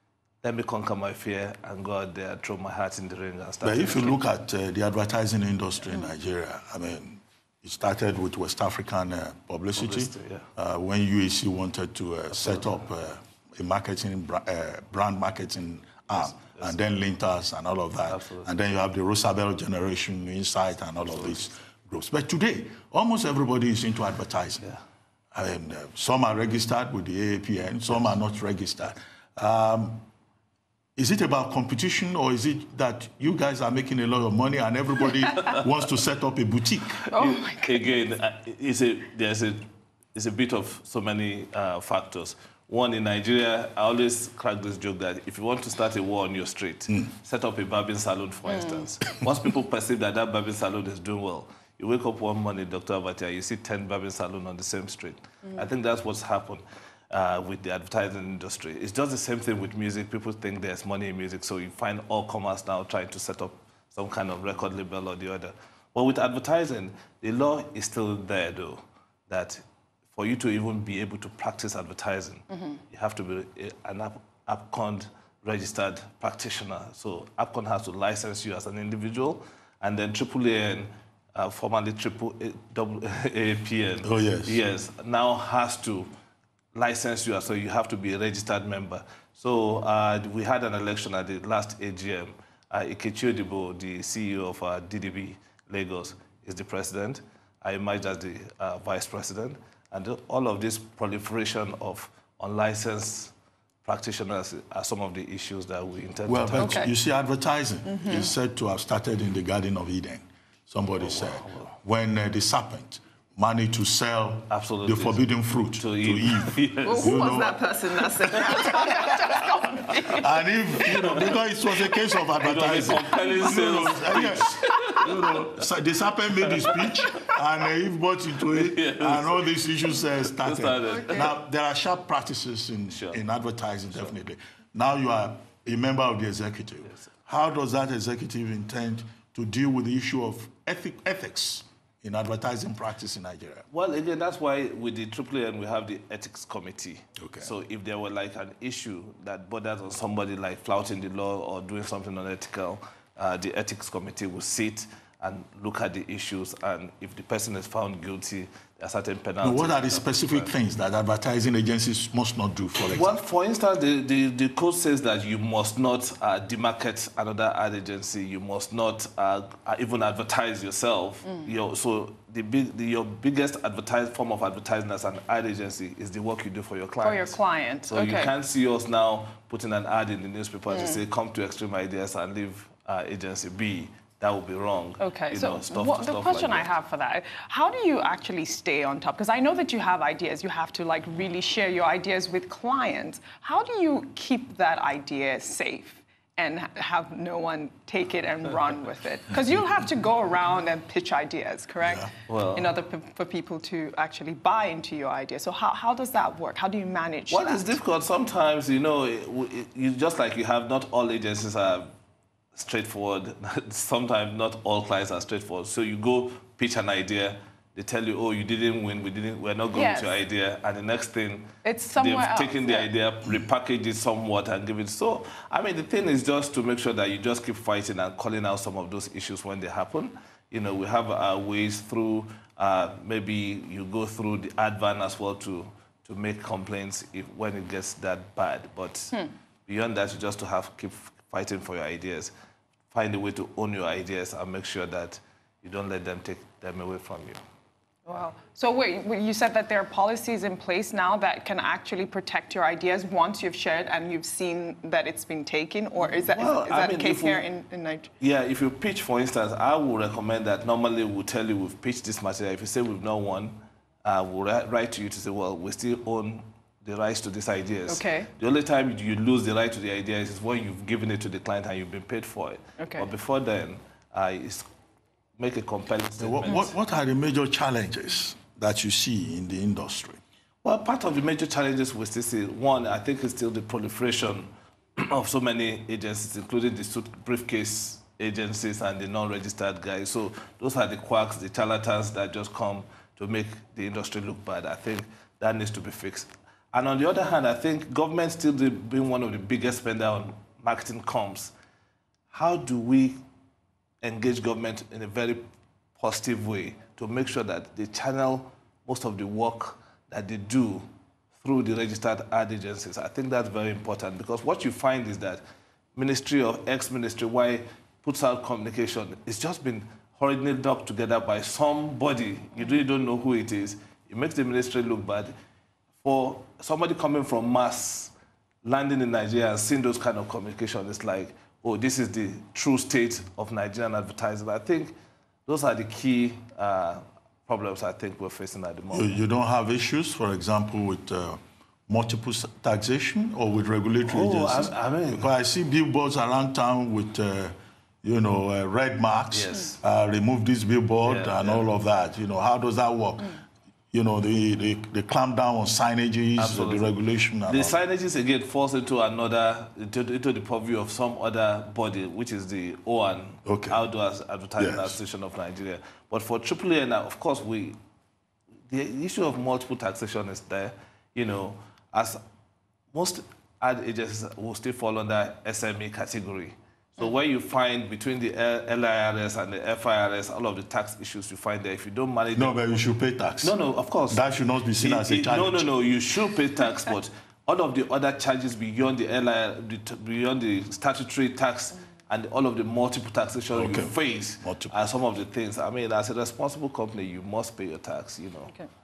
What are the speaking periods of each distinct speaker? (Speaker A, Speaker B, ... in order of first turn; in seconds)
Speaker A: 0.4-4.2, 9.7-10.5, 12.3-12.8, 16.1-16.8, 18.1-18.5, 21.1-21.4, 37.1-39.6, 40.1-69.6, 70.1-86.1, 86.8-103.3, 103.8-106.8, 111.0-111.8, 114.5-117.5, 122.4-125.3, 126.4-127.3, 128.5-129.5, 130.1-131.3, 132.9-133.2, 143.7-160.6, 162.9-186.7, 202.3-202.8, 207.3-211.9, 212.6-242.3, 242.9-247.4, 256.0-257.5, 258.2-274.6, 275.4-276.7, 280.6-301.5, 302.3-303.2, 304.0-305.4, 306.0-310.9, 311.4-315.4, 315.9-325.3, 326.0-334.9, 335.5-339.2, 344.1-345.3, 349.3-349.8, 351.0-351.7, 356.4-367.8, 368.7-372.2, 372.9-382.6, 383.4-384.2, 384.8-398.5
Speaker B: 3.6-24.7, 25.3-30.0, 30.9-37.1, 84.0-84.6, 106.2-117.6, 118.2-118.8, 120.2-143.7, 147.2-147.5, 159.4-163.1, 201.8-202.1, 276.2-280.2, 338.9-353.4, 353.9-357.8, 363.4-363.8, 364.6-365.0, 382.3-383.6, 384.1-385.7, 393.5-394.8
Speaker C: 37.1-37.9, 48.5-48.9, 106.6-106.9, 107.8-108.3, 116.8-121.3, 123.0-125.2, 130.8-131.3, 171.2-171.5, 177.0-178.3, 180.7-181.0, 185.0-207.8, 219.7-220.2, 221.6-222.9, 248.1-258.1, 267.9-268.3, 272.8-273.1